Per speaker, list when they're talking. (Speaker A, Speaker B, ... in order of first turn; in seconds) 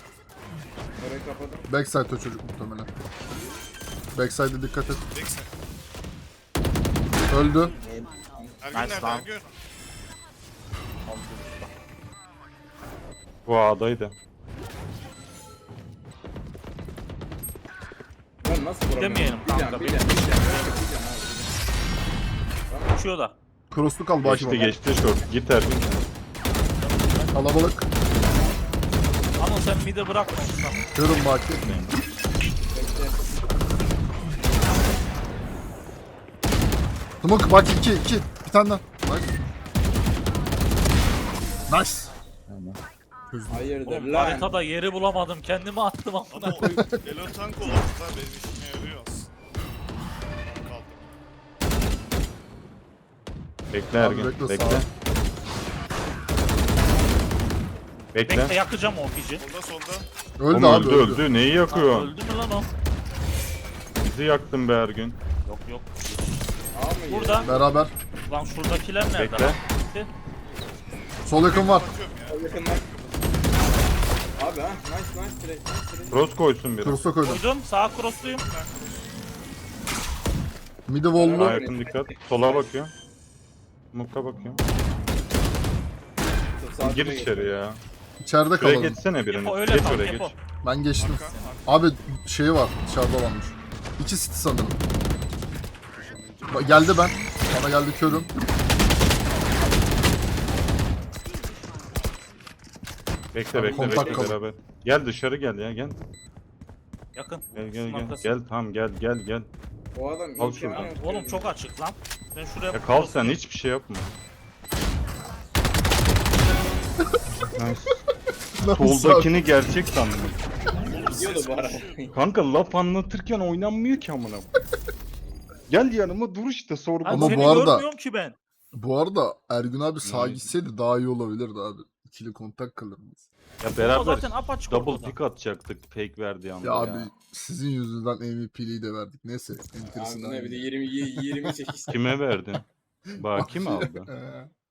Speaker A: 1.0-1.7, 7.8-8.6, 18.4-21.5, 22.7-23.0, 32.7-33.2, 43.5-44.6, 66.7-67.8, 72.2-73.1, 74.3-76.3, 81.1-82.7, 86.4-87.7, 103.6-104.4, 109.9-111.6, 120.9-122.1, 139.9-142.1
Speaker B: 1.7-2.9, 4.1-5.0, 7.3-7.7, 23.7-24.8, 27.3-27.9, 30.9-31.6, 37.2-39.3, 41.7-42.1, 43.3-43.7, 46.4-47.0, 53.9-54.9, 60.4-61.3, 67.4-67.9, 71.2-71.9, 76.8-77.4, 80.9-81.6, 88.2-89.0, 90.6-94.9, 96.5-98.3, 103.5-104.4, 118.6-119.3, 127.1-127.9, 128.7-133.2, 136.6-141.5, 143.2-144.5
Speaker C: 5.1-5.5, 8.6-9.5, 46.3-49.3, 50.4-51.1, 59.4-60.1, 71.3-72.5, 78.0-79.1, 91.0-91.6, 120.8-122.2
Speaker D: 8.7-9.3, 11.1-11.7, 18.9-20.9, 22.9-23.3, 26.5-27.4, 29.4-30.8, 43.9-46.6, 58.3-59.4, 61.7-62.7, 65.4-66.2, 67.1-67.5, 68.3-70.1, 77.2-78.4, 89.3-90.3, 107.1-108.4, 110.8-113.4, 127.0-128.4, 133.8-135.2
Speaker E: 13.4-14.2, 24.2-26.1, 31.6-32.0, 42.5-42.8, 53.7-54.9, 58.1-58.6, 60.5-62.1, 64.0-65.2, 69.2-69.6, 76.1-77.0, 81.3-82.9, 83.9-84.6, 86.8-87.8, 88.5-90.3, 103.3-106.0, 107.5-109.5, 110.4-110.9, 112.7-114.2, 117.5-118.0, 118.8-120.4, 122.1-124.5, 125.7-127.6, 130.0-130.6, 133.6-137.1, 141.9-144.1